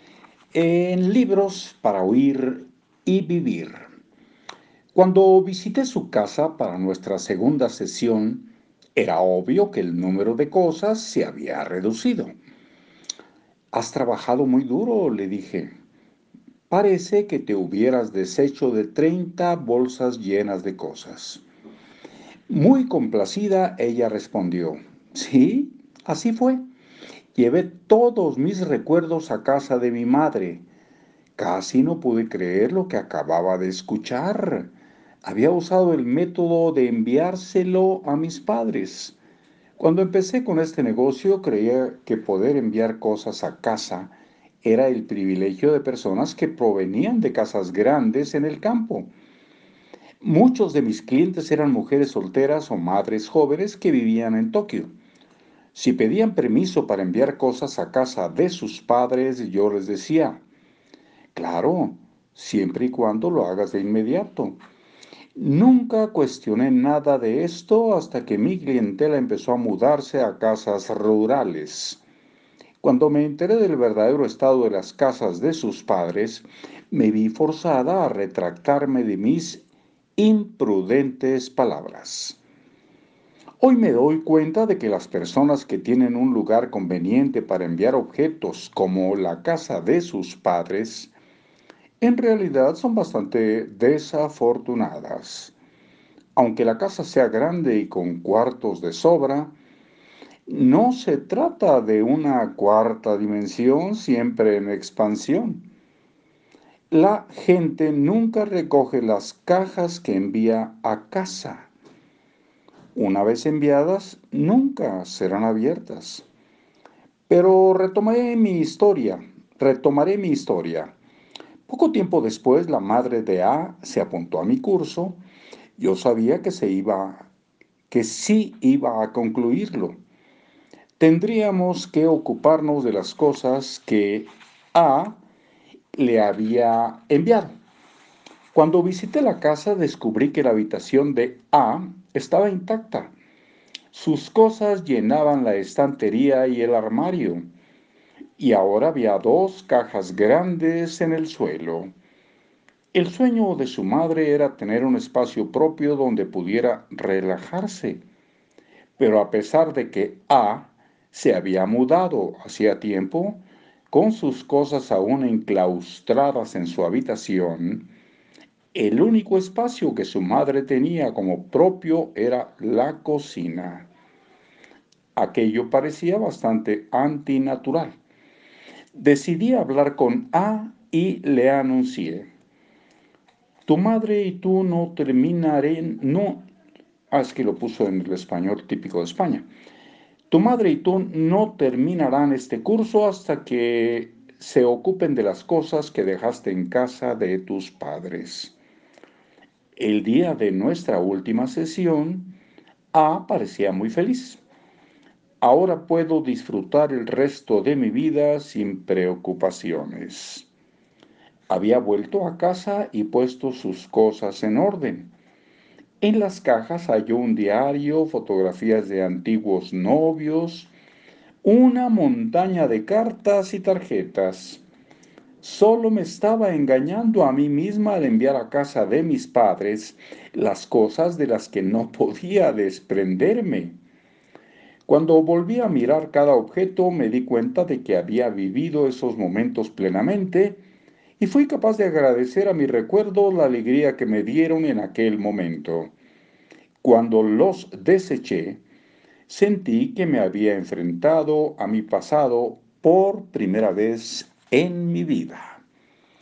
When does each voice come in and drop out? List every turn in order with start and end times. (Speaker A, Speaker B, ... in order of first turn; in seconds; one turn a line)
Speaker A: 0.5-3.9
Speaker A: 4.9-12.3
Speaker A: 13.7-15.7
Speaker A: 16.7-21.4
Speaker A: 22.5-26.6
Speaker A: 27.4-30.6
Speaker A: 31.4-34.7
Speaker A: 35.2-39.2
Speaker A: 39.8-49.1
Speaker A: 50.2-54.9
Speaker A: 55.7-60.4
Speaker A: 61.4-64.6
Speaker A: 65.4-72.0
Speaker A: 72.8-79.6
Speaker A: 80.2-82.4
Speaker A: 83.6-91.1
Speaker A: 92.0-95.5
Speaker A: 96.4-99.5
Speaker A: 100.5-105.7
Speaker A: 106.9-111.7
Speaker A: 113.0-116.2
Speaker A: 117.3-120.9
Speaker A: 121.7-125.2
Speaker A: 125.8-127.3
Speaker A: 127.9-130.0
Speaker A: 131.0-135.2
Speaker A: 135.9-137.6
Speaker A: 138.5-143.1
Speaker A: 143.9-147.4
Speaker A: 148.4-151.9
Speaker A: 152.9-158.0
Speaker A: 159.0-167.9
Speaker A: 168.7-173.9
Speaker A: 175.2-177.9
Speaker A: 178.9-182.3
Speaker A: 183.7-186.5
Speaker A: 187.1-189.5
Speaker A: 190.3-198.6
Speaker A: 199.8-202.4
Speaker A: 202.9-204.4
Speaker A: 205.4-210.5
Speaker A: 211.5-215.1
Speaker A: 216.0-220.7
Speaker A: 221.4-224.6
Speaker A: 225.4-233.8
Speaker A: 234.9-240.6
Speaker A: 241.2-245.9
Speaker A: 246.8-248.6
Speaker A: 249.3-255.6